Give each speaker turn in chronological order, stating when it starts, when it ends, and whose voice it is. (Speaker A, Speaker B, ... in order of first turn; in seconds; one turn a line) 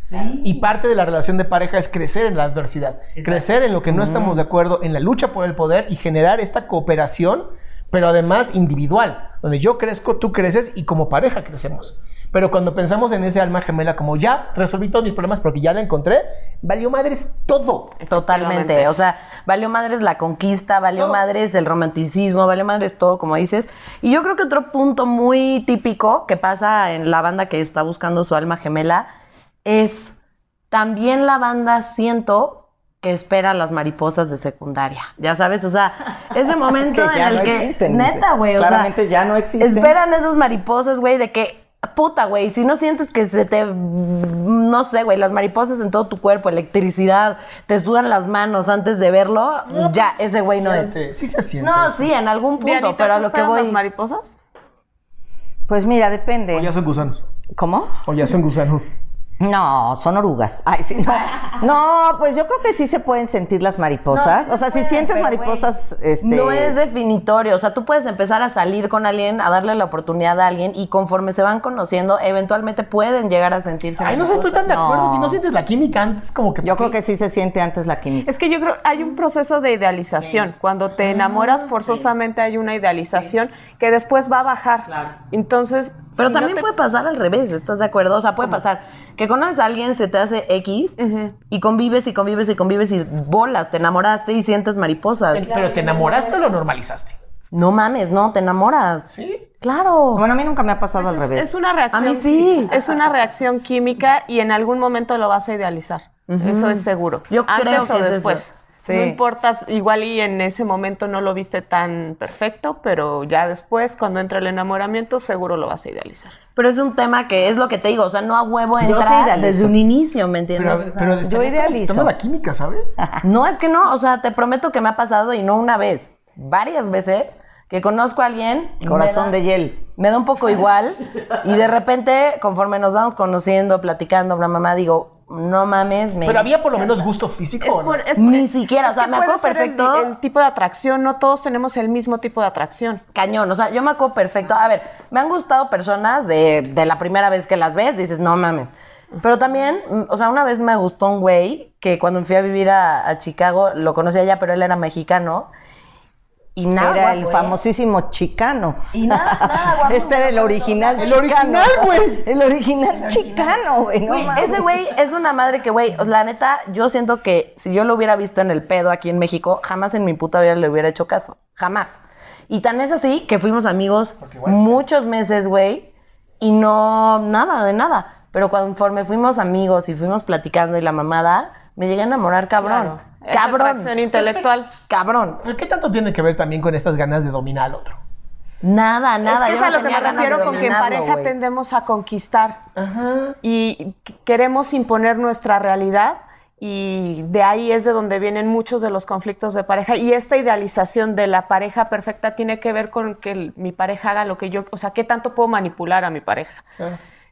Speaker A: 0.1-0.6
Speaker B: 0.4-18.0
Speaker A: 3.1-4.4
Speaker C: 18.0-18.9
Speaker A: 18.1-29.1
Speaker A: 29.6-30.1
Speaker A: 30.7-38.9
Speaker D: 36.7-39.9
Speaker A: 39.6-50.9
Speaker B: 49.7-52.1
Speaker A: 51.6-53.8
Speaker C: 52.6-54.4
Speaker D: 55.7-56.7
Speaker B: 56.5-57.2
Speaker D: 57.6-57.9
Speaker B: 58.1-58.9
Speaker D: 59.4-66.8
Speaker A: 64.1-65.7
Speaker A: 66.2-74.8
Speaker B: 74.0-76.9
Speaker D: 74.7-75.4
Speaker D: 76.6-78.3
Speaker C: 78.2-86.7
Speaker A: 86.2-91.0
Speaker C: 91.0-91.3
Speaker A: 91.5-95.6
Speaker B: 95.3-97.2
Speaker C: 95.6-96.3
Speaker A: 97.5-100.2
Speaker B: 99.1-99.4
Speaker D: 100.1-101.5
Speaker C: 101.0-116.3
Speaker A: 101.9-102.7
Speaker A: 106.3-109.2
Speaker A: 116.6-121.2
Speaker D: 118.8-119.8
Speaker B: 120.6-123.0
Speaker D: 121.2-122.1
Speaker A: 123.2-129.3
Speaker D: 128.8-129.8
Speaker A: 129.9-136.5
Speaker B: 136.2-138.0
Speaker C: 137.6-143.0
Speaker A: 138.2-140.1
Speaker A: 143.1-155.5
Speaker A: 156.6-157.6
Speaker D: 156.8-164.6
Speaker A: 158.9-161.2
Speaker B: 161.0-162.3
Speaker A: 163.0-175.9
Speaker B: 174.2-174.8
Speaker A: 176.4-183.9
Speaker C: 182.6-184.7
Speaker B: 184.1-184.4
Speaker A: 184.9-185.4
Speaker B: 185.4-188.0
Speaker A: 188.6-191.3
Speaker C: 189.2-192.7
Speaker B: 192.8-193.4
Speaker C: 193.4-206.7